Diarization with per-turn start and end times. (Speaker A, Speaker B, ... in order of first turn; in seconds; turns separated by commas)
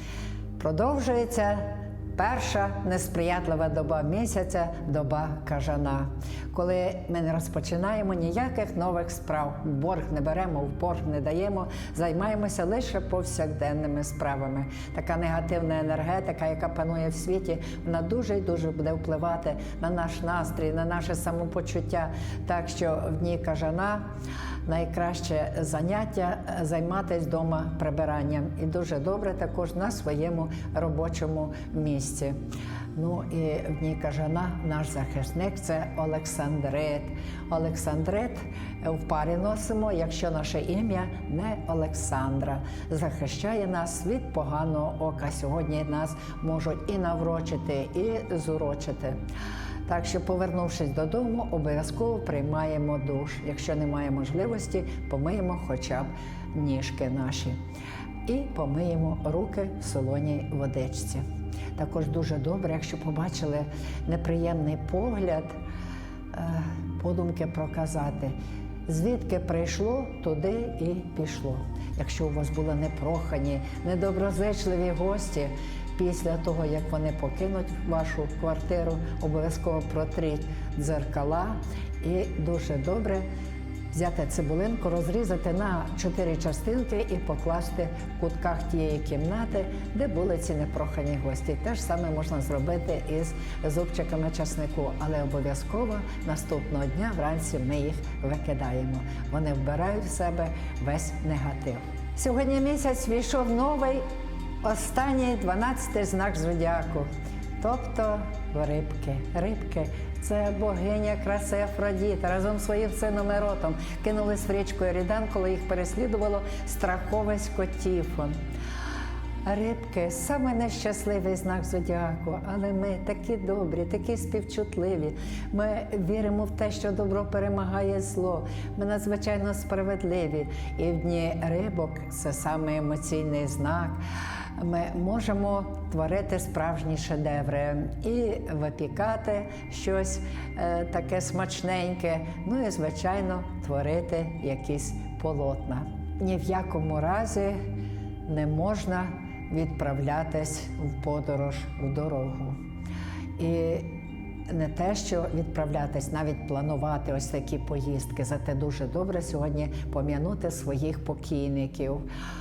Speaker A: 0.6-24.1, Speaker A: 24.6-32.4, Speaker A: 32.9-49.2, Speaker A: 49.9-57.6, Speaker A: 58.2-61.2, Speaker A: 61.8-65.5, Speaker A: 66.3-68.3, Speaker A: 68.9-83.2, Speaker A: 83.9-104.0, Speaker A: 104.6-118.4, Speaker A: 119.4-134.0, Speaker A: 134.6-147.6, Speaker A: 148.2-152.6, Speaker A: 153.4-153.9, Speaker A: 154.5-162.0